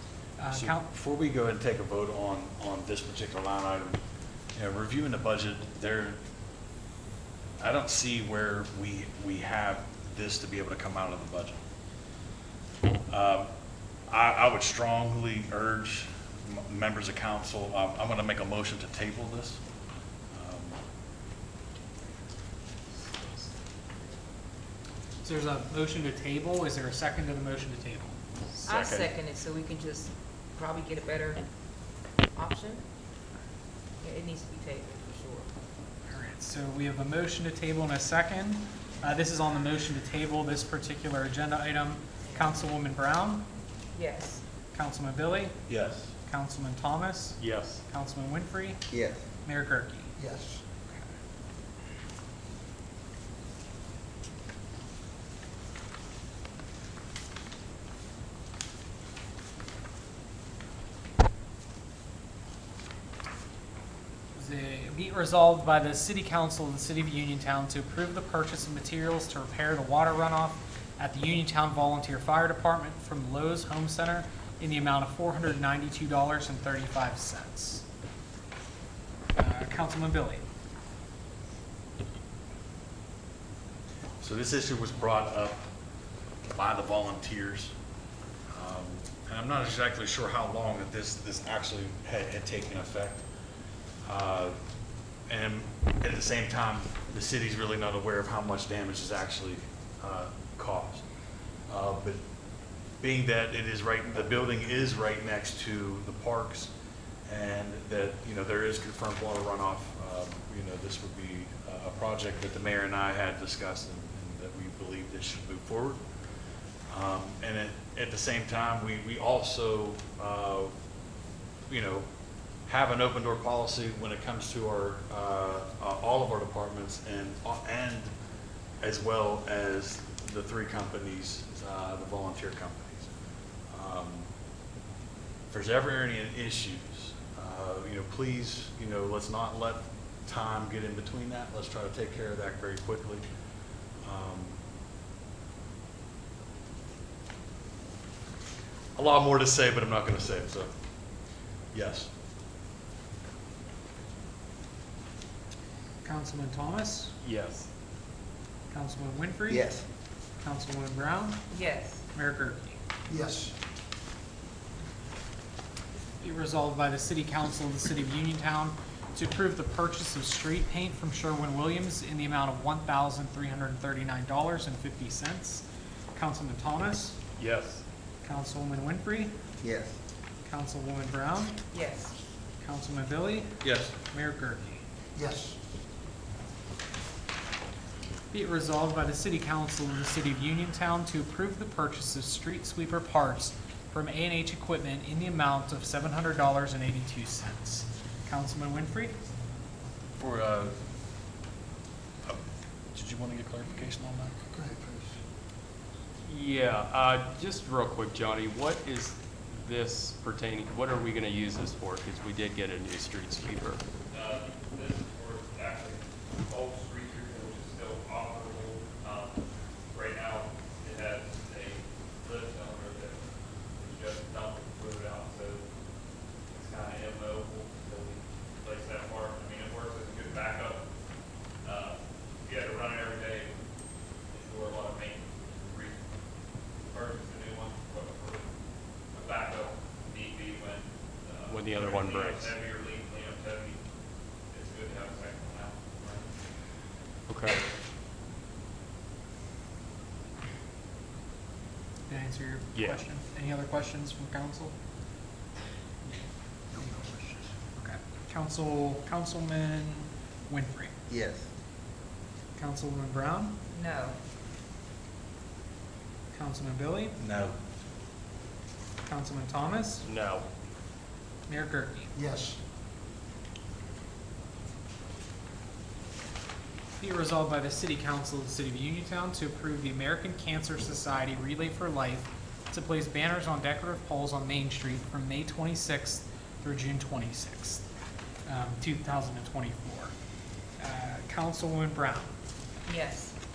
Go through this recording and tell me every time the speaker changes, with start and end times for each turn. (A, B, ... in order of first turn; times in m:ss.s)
0:00.4-0:00.8 A
0:00.5-0:04.0 B
0:04.6-0:06.2 B
0:07.6-0:11.6 B
0:13.1-0:13.5 B
0:14.1-0:19.6 B
0:20.3-0:20.8 B
0:25.2-0:28.2 A
0:28.6-0:31.5 C
0:28.7-0:29.1 D
0:32.3-0:32.8 C
0:34.0-0:35.5 C
0:36.1-0:43.5 A
0:42.2-0:42.6 C
0:43.9-0:44.4 C
0:44.7-0:45.6 A
0:45.7-0:46.1 B
0:46.2-0:48.8 A
0:47.4-0:47.8 D
0:48.9-0:49.2 E
0:49.4-0:50.1 A
0:50.2-0:50.6 E
1:04.3-1:17.8 A
1:19.3-1:20.4 A
1:24.2-1:25.6 B
1:26.4-1:27.7 B
1:28.5-1:33.2 B
1:34.0-1:34.6 B
1:35.3-1:41.0 B
1:41.7-1:42.2 B
1:43.0-1:46.7 B
1:47.3-1:56.0 B
1:56.9-2:00.7 B
2:01.7-2:02.0 B
2:02.7-2:08.1 B
2:08.8-2:13.1 B
2:13.7-2:14.3 B
2:15.5-2:23.2 B
2:24.0-2:24.6 B
2:29.0-2:30.7 B
2:31.7-2:32.1 B
2:36.0-2:37.1 A
2:37.2-2:37.7 D
2:38.7-2:39.7 A
2:39.5-2:39.8 E
2:40.4-2:41.5 A
2:41.5-2:42.0 C
2:42.1-2:42.8 A
2:43.1-2:43.5 E
2:46.2-2:57.2 A
2:57.4-2:57.8 D
2:58.2-2:59.4 A
2:59.6-3:00.0 E
3:00.4-3:01.6 A
3:01.7-3:02.2 C
3:02.6-3:04.8 A
3:03.6-3:03.9 B
3:05.2-3:05.6 E
3:08.3-3:19.1 A
3:20.2-3:20.8 B
3:22.9-3:24.5 B
3:24.5-3:25.2 E
3:26.2-3:33.8 D
3:34.1-3:39.4 F
3:39.9-3:43.2 F
3:43.8-3:45.6 F
3:46.5-3:50.8 F
3:51.6-3:53.6 F
3:54.3-3:56.0 F
3:56.8-3:58.5 F
3:59.1-4:03.8 F
4:01.5-4:02.6 D
4:04.5-4:06.3 F
4:07.3-4:07.6 D
4:12.1-4:14.7 A
4:16.8-4:17.4 E
4:17.8-4:20.9 A
4:21.1-4:21.5 E
4:22.6-4:23.6 A
4:23.7-4:24.2 C
4:26.3-4:27.2 A
4:27.2-4:27.6 B
4:29.0-4:30.1 A
4:30.0-4:30.4 D
4:31.5-4:32.1 A
4:32.2-4:32.6 E
4:37.0-4:47.8 A
4:48.4-4:50.1 A
4:50.8-4:52.3 A
4:52.8-4:53.4 C